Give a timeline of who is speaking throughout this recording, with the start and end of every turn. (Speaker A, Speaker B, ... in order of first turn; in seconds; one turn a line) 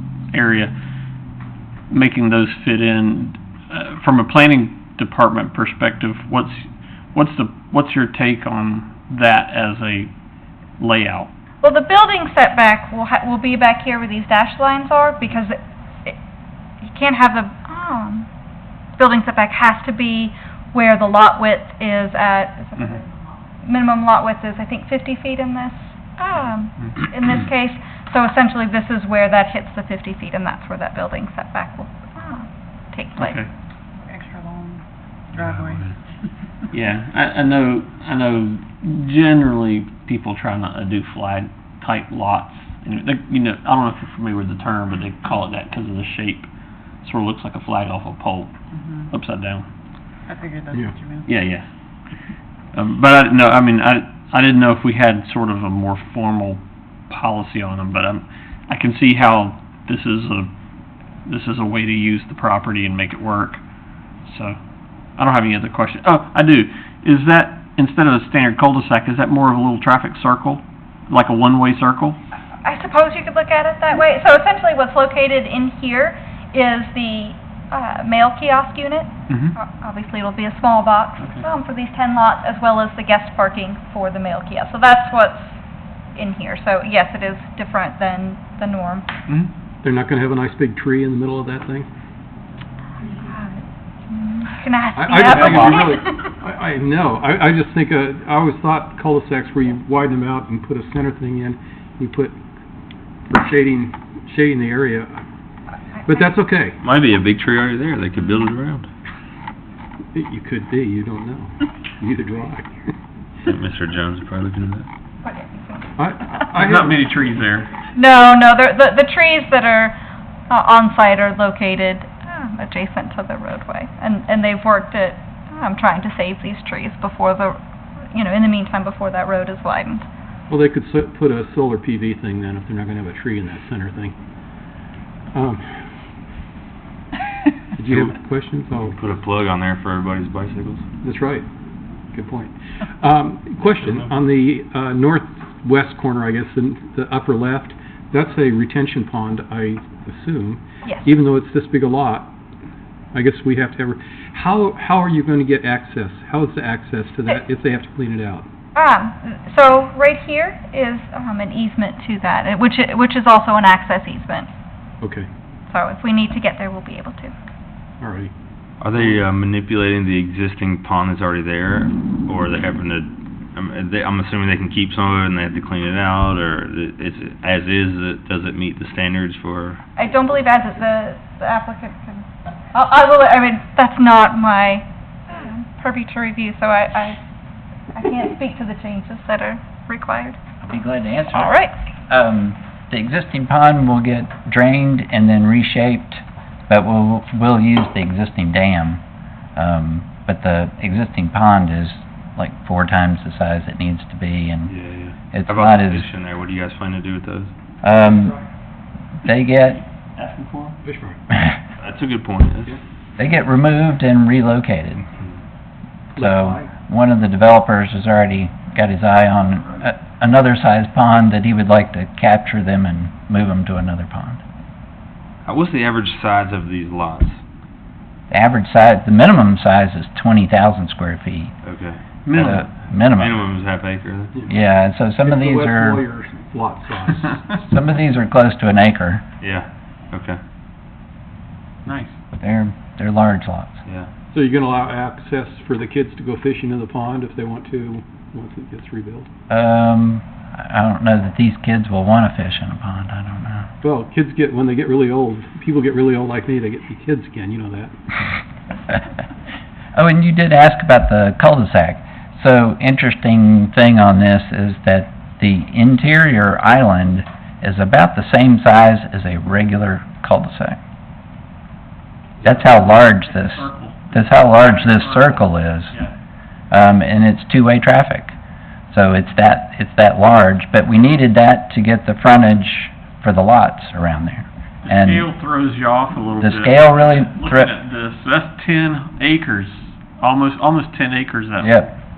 Speaker A: 0.3-0.7
Speaker A: 1.9-10.1
Speaker A: 10.8-11.3
Speaker B: 11.6-16.2
Speaker B: 16.8-18.3
Speaker B: 19.0-23.1
Speaker B: 23.6-33.4
Speaker A: 33.2-33.5
Speaker C: 34.0-35.9
Speaker A: 36.7-46.5
Speaker A: 47.0-48.5
Speaker C: 48.8-49.1
Speaker A: 49.1-49.7
Speaker C: 50.3-51.3
Speaker A: 51.2-51.7
Speaker A: 52.7-60.5
Speaker A: 61.3-63.6
Speaker A: 64.2-64.6
Speaker A: 65.2-72.2
Speaker B: 72.6-85.6
Speaker A: 79.3-79.5
Speaker A: 81.2-81.4
Speaker B: 86.2-89.1
Speaker D: 89.8-91.9
Speaker B: 93.0-96.3
Speaker D: 94.9-102.4
Speaker D: 103.2-105.2
Speaker D: 106.0-106.8
Speaker E: 106.8-108.9
Speaker D: 110.1-112.9
Speaker E: 113.4-114.9
Speaker B: 115.2-116.5
Speaker D: 116.0-117.1
Speaker A: 116.5-117.7
Speaker B: 117.9-119.9
Speaker B: 120.5-127.6
Speaker B: 128.1-130.1
Speaker D: 130.5-134.2
Speaker D: 135.3-135.8
Speaker D: 137.8-138.9
Speaker E: 138.8-140.8
Speaker D: 141.0-141.5
Speaker D: 142.1-152.3
Speaker B: 150.8-151.1
Speaker D: 153.1-158.5
Speaker B: 158.8-164.5
Speaker D: 165.0-165.3
Speaker B: 165.7-167.3
Speaker D: 168.0-168.3
Speaker E: 168.8-179.8
Speaker B: 180.0-187.2
Speaker B: 187.9-190.4
Speaker F: 190.6-191.6
Speaker B: 191.3-191.7
Speaker F: 192.1-199.0
Speaker F: 199.6-204.7
Speaker E: 204.7-207.5
Speaker F: 205.3-206.1
Speaker F: 207.8-208.4
Speaker F: 209.2-209.8
Speaker A: 210.2-210.8
Speaker D: 210.8-211.2
Speaker E: 211.8-212.8
Speaker F: 213.2-215.0
Speaker D: 216.1-216.7
Speaker F: 216.2-224.4
Speaker E: 225.4-227.4
Speaker F: 228.3-231.5
Speaker E: 231.6-234.4
Speaker A: 232.2-232.7
Speaker F: 232.4-233.4
Speaker F: 234.5-236.0
Speaker D: 235.2-237.5
Speaker F: 237.5-239.2
Speaker E: 239.4-240.4
Speaker A: 241.9-242.2
Speaker F: 242.4-243.8
Speaker D: 244.3-249.3
Speaker F: 249.5-253.7
Speaker D: 253.8-257.9
Speaker F: 259.9-270.8
Speaker F: 272.4-275.9
Speaker A: 272.4-276.1
Speaker F: 276.7-278.3
Speaker F: 278.9-285.3
Speaker A: 284.9-291.8
Speaker F: 286.4-287.7
Speaker F: 291.6-291.9